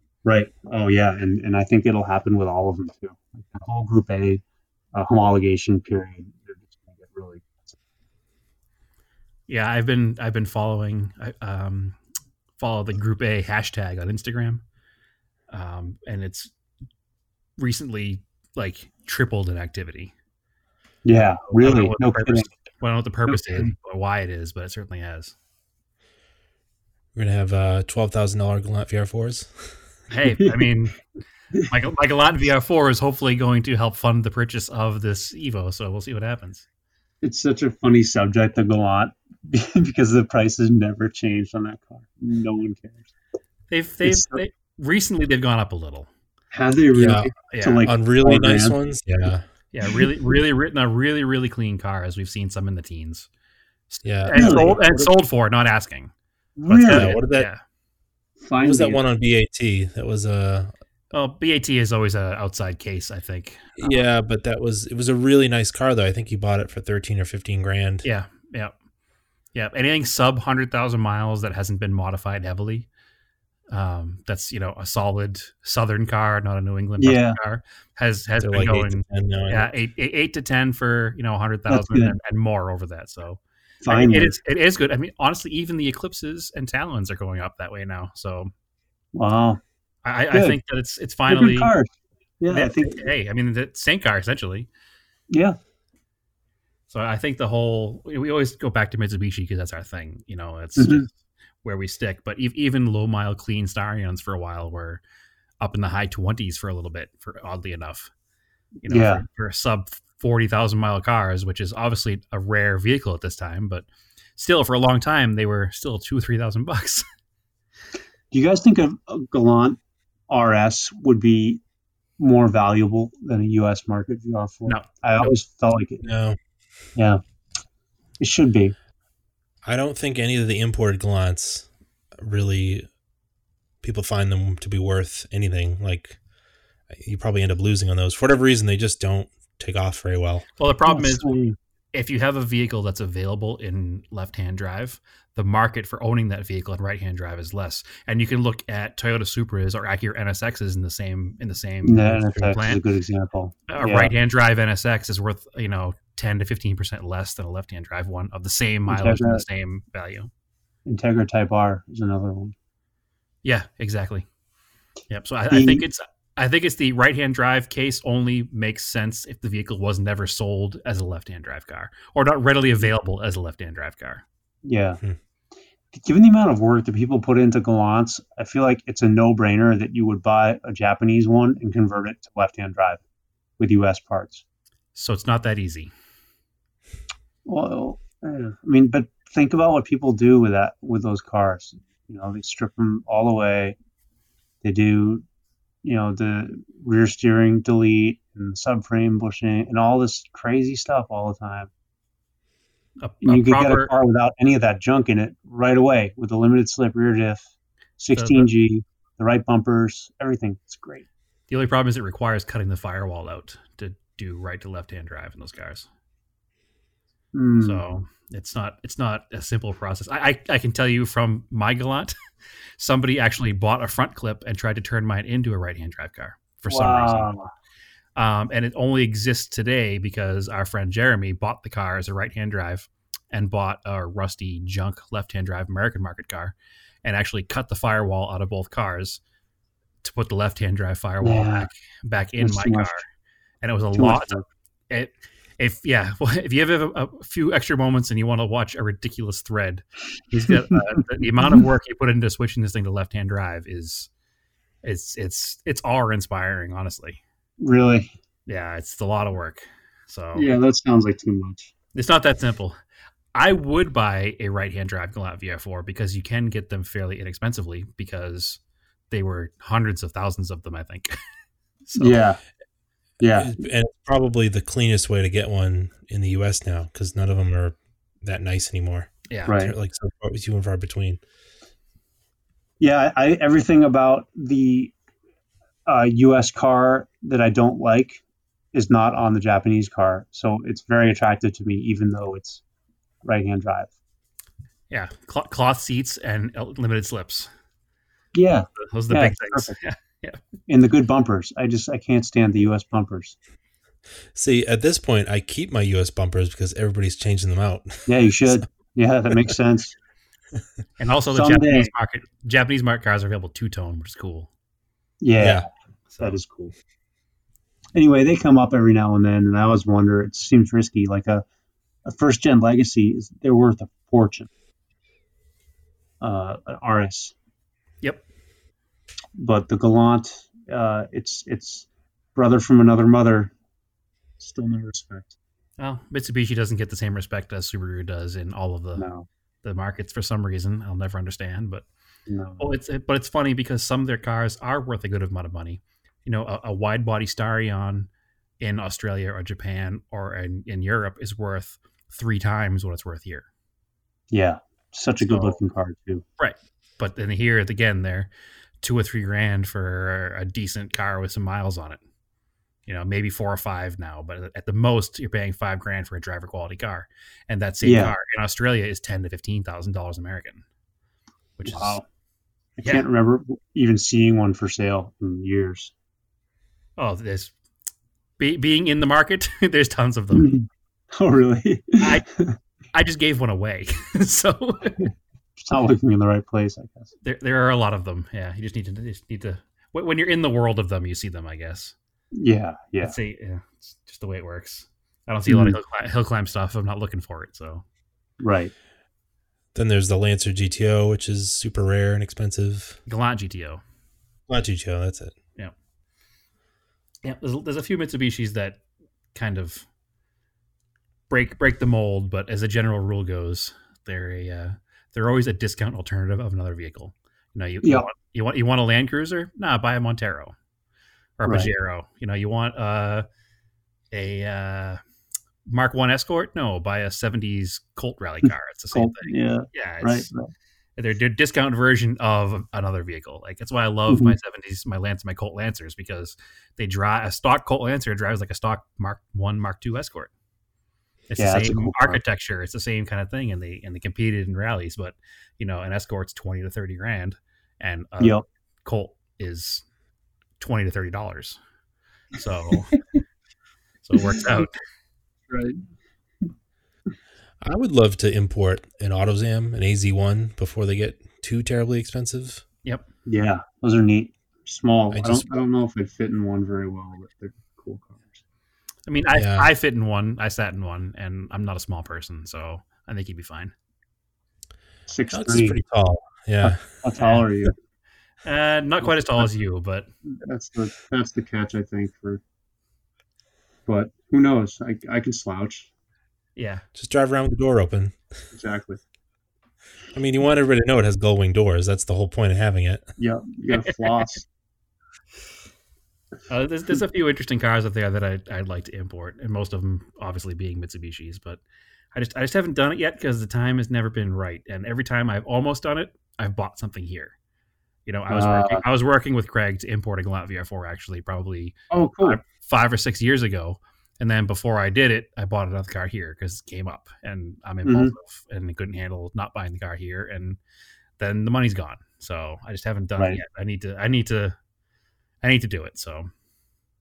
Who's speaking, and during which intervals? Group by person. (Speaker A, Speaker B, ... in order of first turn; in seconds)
Speaker A: 0.2-4.4, 4.9-7.8, 21.1-22.5, 23.3-23.7, 30.4-30.7, 37.2-43.1, 44.0-44.4, 46.5-48.8, 54.3-54.8, 56.6-57.2, 58.4-59.0, 77.0-77.4, 81.7-82.2, 83.8-84.3, 89.2-89.6, 90.3-90.6, 91.3-91.9, 92.4-93.1, 95.3-95.6, 100.8-101.1, 108.8-109.2, 118.3-121.6, 122.2-126.1, 127.0-127.2, 128.2-128.8, 140.9-141.6, 151.8-154.1, 158.9-159.4, 160.9-162.6, 165.5-165.8, 174.7-175.0, 175.9-183.0, 183.6-184.4, 187.5-193.8, 194.6-195.2, 195.8-201.7, 203.2-211.1, 217.3-217.8, 226.7-227.5, 241.2-241.7, 242.4-243.0, 243.9-244.4, 250.7-251.6, 257.6-258.1, 260.4-261.7, 272.0-272.4, 273.2-273.6, 279.5-279.7, 282.8-284.9, 285.9-288.2, 288.7-292.6, 293.2-293.9, 298.3-299.8, 300.7-303.4, 308.1-309.9, 311.3-311.9, 315.2-315.7, 316.2-316.7, 317.9-321.4, 322.1-324.5, 326.2-327.4, 329.4-333.5, 334.4-335.4, 339.0-339.3, 342.3-342.7, 354.3-356.2, 367.8-368.1, 371.7-372.1, 372.8-375.9, 380.3-382.6, 385.6-387.1, 392.4-393.1, 395.5-395.8, 398.4-398.7, 417.8-418.1, 421.4-421.7, 428.4-430.5, 434.1-434.4, 441.4-442.2, 452.7-453.0, 454.2-454.4, 455.5-455.8, 463.3-468.4, 475.1-475.8, 476.6-477.7, 480.3-482.4, 483.9-485.9, 488.5-489.0, 493.2-494.4, 508.3-508.8, 511.9-512.4, 517.9-518.1
Speaker B: 9.5-12.0, 12.6-14.6, 15.5-16.5, 17.6-20.1, 21.5-25.4, 30.1-31.0, 31.7-36.6, 43.7-46.1, 47.5-47.9, 49.7-53.3, 53.9-56.1, 56.7-57.6, 61.1-64.0, 68.0-68.7, 69.5-72.9, 73.7-88.5, 90.0-91.7, 92.5-94.7, 96.9-101.1, 101.6-105.0, 105.6-108.1, 108.8-113.9, 114.4-117.0, 124.7-125.3, 140.6-141.4, 141.9-152.8, 153.7-160.3, 163.4-164.2, 165.1-174.2, 184.9-185.9, 203.0-203.9, 208.1-208.5, 211.5-215.9, 217.6-222.1, 222.8-227.3, 228.2-239.2, 240.0-243.1, 243.6-244.4, 244.9-254.1, 254.8-257.2, 258.5-260.5, 261.9-262.8, 263.3-271.2, 271.9-272.2, 279.3-279.6, 294.9-297.5, 298.8-300.4, 311.0-314.5, 316.1-316.4, 335.8-339.1, 339.6-341.9, 342.6-348.1, 348.6-353.5, 355.2-355.6, 356.4-362.0, 362.9-370.6, 371.6-372.0, 377.0-377.5, 378.4-380.5, 382.0-382.3, 382.9-385.1, 387.2-391.9, 393.0-397.8, 403.1-403.8, 407.2-408.8, 409.3-409.9, 411.3-420.5, 421.4-423.2, 424.1-425.0, 425.7-430.3, 431.0-440.3, 441.3-449.9, 450.6-451.6, 452.3-453.0, 454.0-454.7, 469.1-473.7, 477.2-477.4, 478.4-480.1, 486.6-486.9, 496.5-501.6, 502.1-507.4, 508.1-520.6, 521.2-524.6, 525.4-526.3
Speaker C: 27.1-29.8, 47.0-47.3, 47.9-49.4, 54.0-55.1, 56.8-57.5, 58.6-60.7, 63.8-68.1, 78.4-79.7, 126.0-126.4, 129.6-132.9, 133.8-136.2, 136.9-140.4, 273.4-281.2, 304.3-308.6, 315.4-315.6, 399.7-403.0, 404.5-405.4, 457.6-462.6, 465.1-465.6, 469.3-469.7, 475.3-476.9, 486.9-488.2, 490.1-493.1